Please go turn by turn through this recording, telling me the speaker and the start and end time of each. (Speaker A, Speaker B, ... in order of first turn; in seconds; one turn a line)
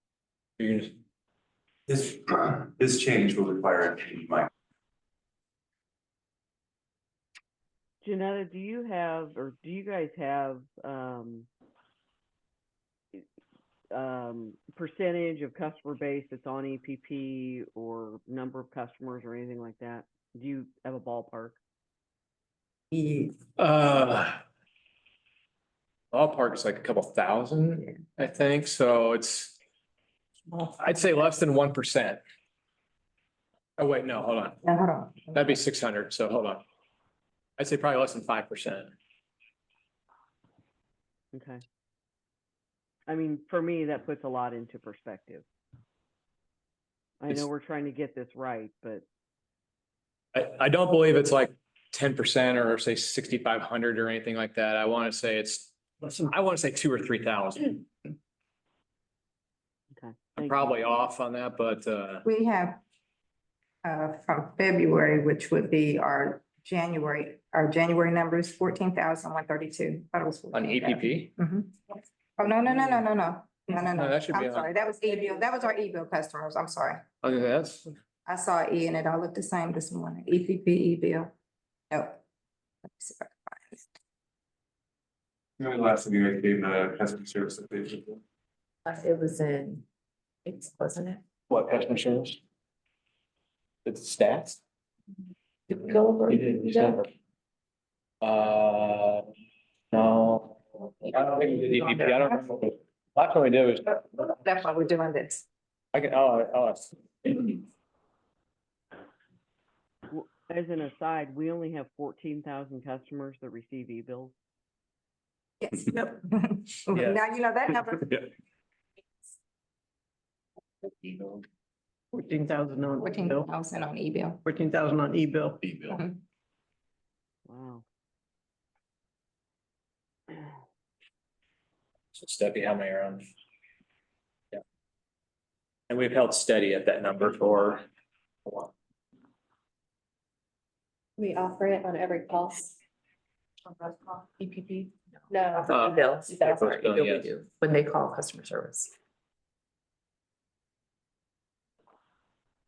Speaker A: 0.6-0.9
Speaker B: 1.9-4.5
Speaker C: 8.0-11.5
Speaker C: 13.9-21.6
Speaker A: 23.6-24.4
Speaker A: 26.1-29.5
Speaker A: 30.6-32.2
Speaker A: 33.8-34.6
Speaker D: 34.6-35.4
Speaker A: 35.3-36.6
Speaker A: 37.6-38.9
Speaker C: 41.3-41.6
Speaker C: 43.1-45.4
Speaker C: 47.2-49.0
Speaker A: 50.3-57.9
Speaker C: 59.9-60.8
Speaker A: 60.4-62.2
Speaker D: 62.2-62.8
Speaker D: 63.8-77.0
Speaker A: 70.5-71.3
Speaker A: 72.7-73.0
Speaker A: 73.7-74.7
Speaker A: 77.2-77.9
Speaker D: 78.2-81.3
Speaker D: 81.9-82.2
Speaker D: 82.8-83.9
Speaker B: 85.6-88.2
Speaker E: 88.8-89.8
Speaker E: 90.4-91.2
Speaker A: 91.5-92.4
Speaker A: 93.8-94.6
Speaker E: 95.7-97.0
Speaker A: 96.3-97.1
Speaker A: 98.2-99.2
Speaker A: 99.9-103.9
Speaker E: 101.6-102.2
Speaker D: 103.9-105.4
Speaker A: 105.9-107.6
Speaker C: 110.1-114.3
Speaker D: 115.6-118.2
Speaker A: 116.9-117.2
Speaker F: 122.1-123.5
Speaker D: 123.0-124.4
Speaker F: 124.4-125.8
Speaker C: 127.5-127.8
Speaker A: 132.1-133.2
Speaker A: 135.9-137.8
Speaker E: 141.2-142.8
Speaker E: 143.7-148.9
Speaker A: 145.7-147.3